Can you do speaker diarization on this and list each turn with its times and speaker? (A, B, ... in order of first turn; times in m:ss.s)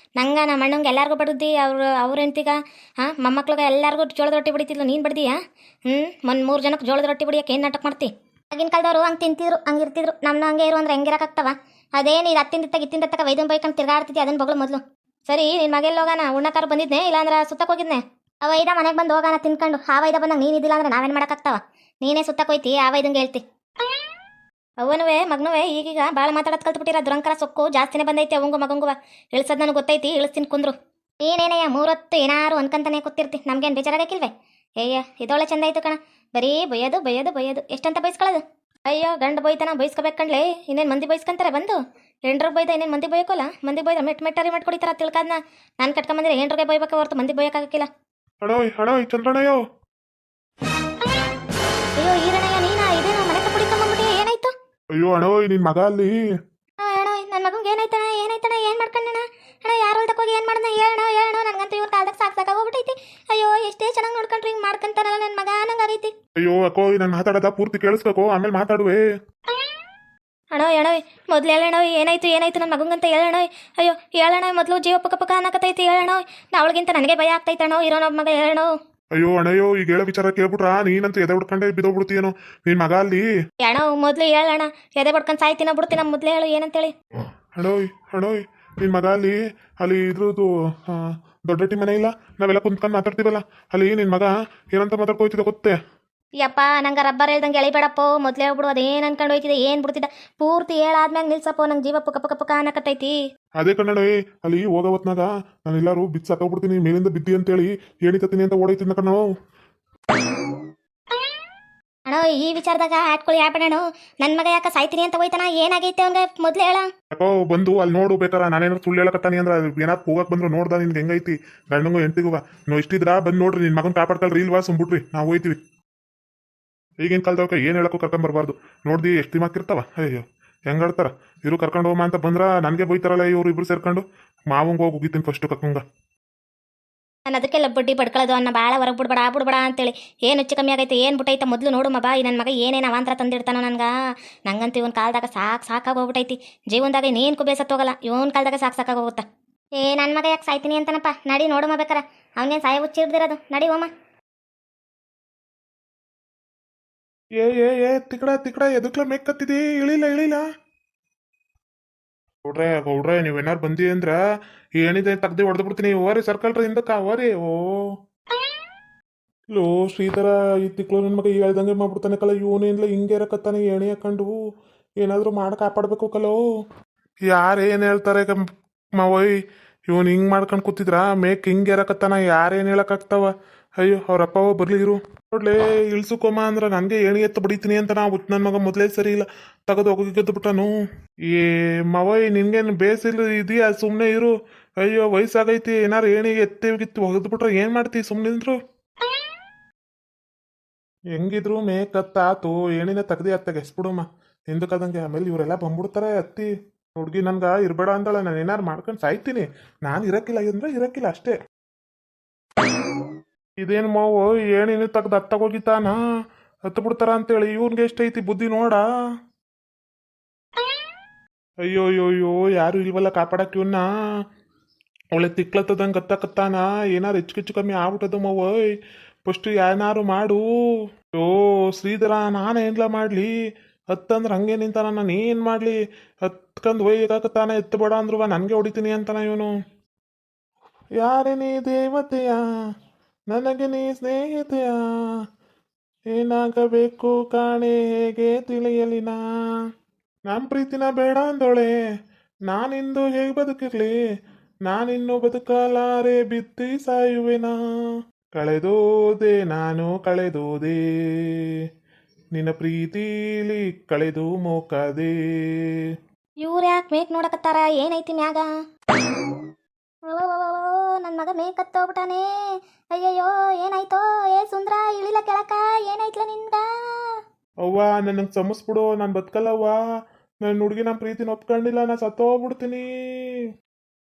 0:00.2-0:23.4 A
0:24.8-0:47.9 A
0:48.4-0:49.6 B
0:52.0-0:54.5 A
0:55.0-0:56.1 B
0:56.8-1:06.1 A
1:06.4-1:09.0 B
1:10.5-1:18.7 A
1:19.2-1:23.2 B
1:23.6-1:26.9 A
1:27.6-1:35.8 B
1:36.4-1:43.2 A
1:43.6-1:49.3 B
1:52.1-1:56.9 A
1:57.1-2:05.6 B
2:07.0-2:15.8 B
2:17.3-2:23.9 A
2:24.5-2:29.2 A
2:29.8-2:33.9 A
2:37.4-2:40.4 B
2:42.4-2:44.2 B
2:44.8-2:47.6 B
2:49.5-2:54.4 B
2:55.0-2:56.4 B
2:57.3-2:59.3 B
2:59.9-3:10.8 B
3:11.3-3:18.6 B
3:21.1-3:31.3 B
3:33.6-3:36.0 B
3:36.7-3:38.8 B
3:41.6-3:43.9 B
3:45.1-3:48.7 B
3:49.2-3:50.4 B
3:51.2-3:53.3 B
3:53.9-3:59.5 B
4:01.0-4:02.4 B
4:03.3-4:05.1 B
4:06.1-4:09.2 B
4:10.3-4:11.8 B
4:12.5-4:14.0 B
4:14.7-4:17.6 B
4:18.4-4:21.5 B
4:22.3-4:25.8 B
4:26.4-4:28.5 A
4:30.1-4:32.3 A
4:32.9-4:37.2 A
4:37.6-4:39.8 B
4:40.4-4:42.9 B